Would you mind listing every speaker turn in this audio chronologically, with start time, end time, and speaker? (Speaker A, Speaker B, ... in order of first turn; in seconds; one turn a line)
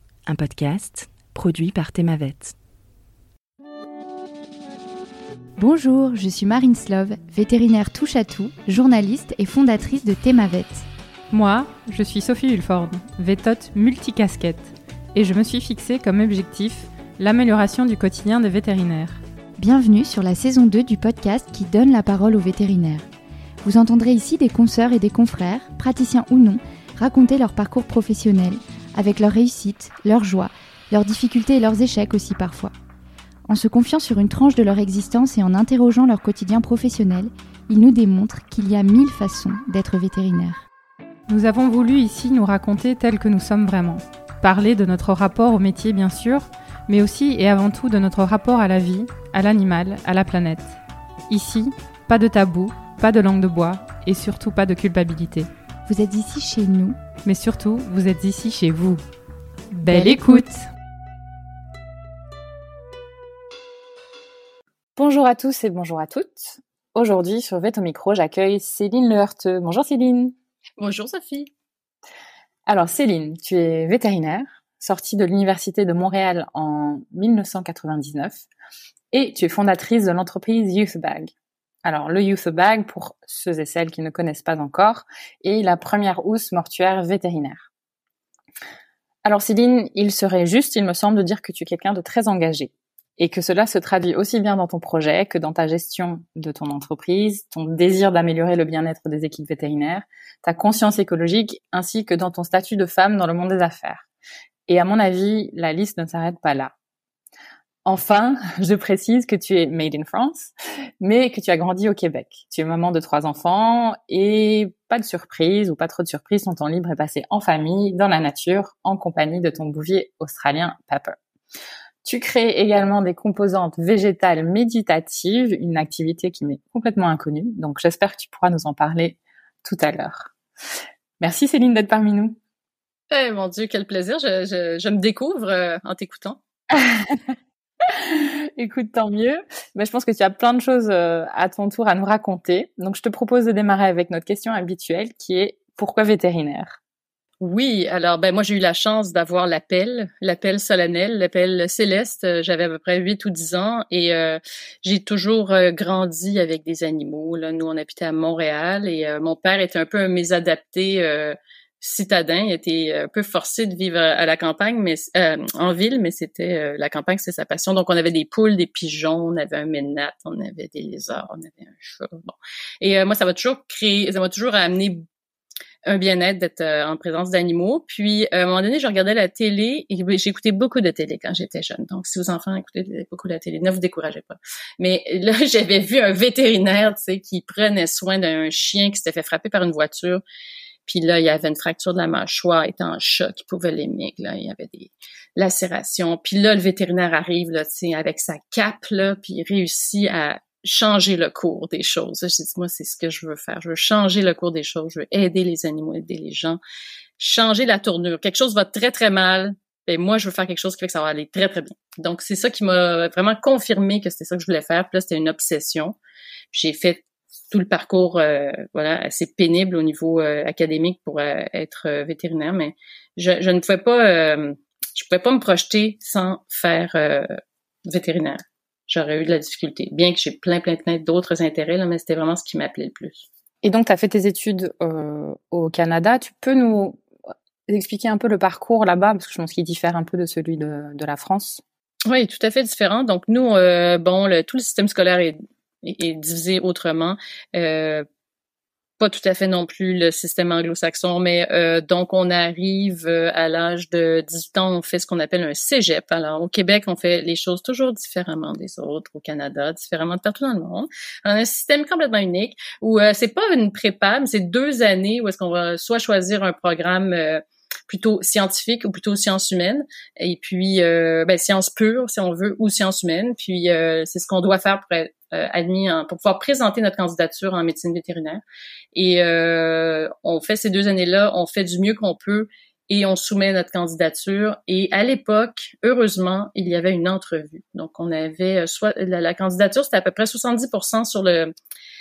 Speaker A: 0.3-2.5
Speaker B: 5.6-10.9
Speaker C: 11.3-19.2
Speaker B: 19.6-23.1
Speaker B: 23.6-32.7
Speaker B: 33.5-40.6
Speaker C: 41.3-55.5
Speaker B: 55.9-57.0
Speaker C: 57.2-59.0
Speaker C: 59.8-60.5
Speaker B: 59.8-60.6
Speaker D: 65.0-70.3
Speaker E: 70.8-71.5
Speaker D: 72.7-78.5
Speaker D: 79.1-81.3
Speaker D: 81.8-87.7
Speaker D: 89.2-104.1
Speaker D: 104.7-106.7
Speaker D: 107.8-121.2
Speaker D: 122.0-130.3
Speaker D: 131.2-132.4
Speaker E: 133.1-136.4
Speaker D: 136.8-137.2
Speaker D: 138.0-146.8
Speaker E: 147.4-175.1
Speaker E: 175.9-190.2
Speaker E: 190.9-206.6
Speaker E: 207.2-216.0
Speaker E: 216.5-227.3
Speaker E: 227.9-233.3
Speaker D: 233.6-237.0
Speaker D: 237.7-241.6
Speaker E: 242.1-248.1
Speaker E: 249.0-278.4
Speaker E: 278.9-291.5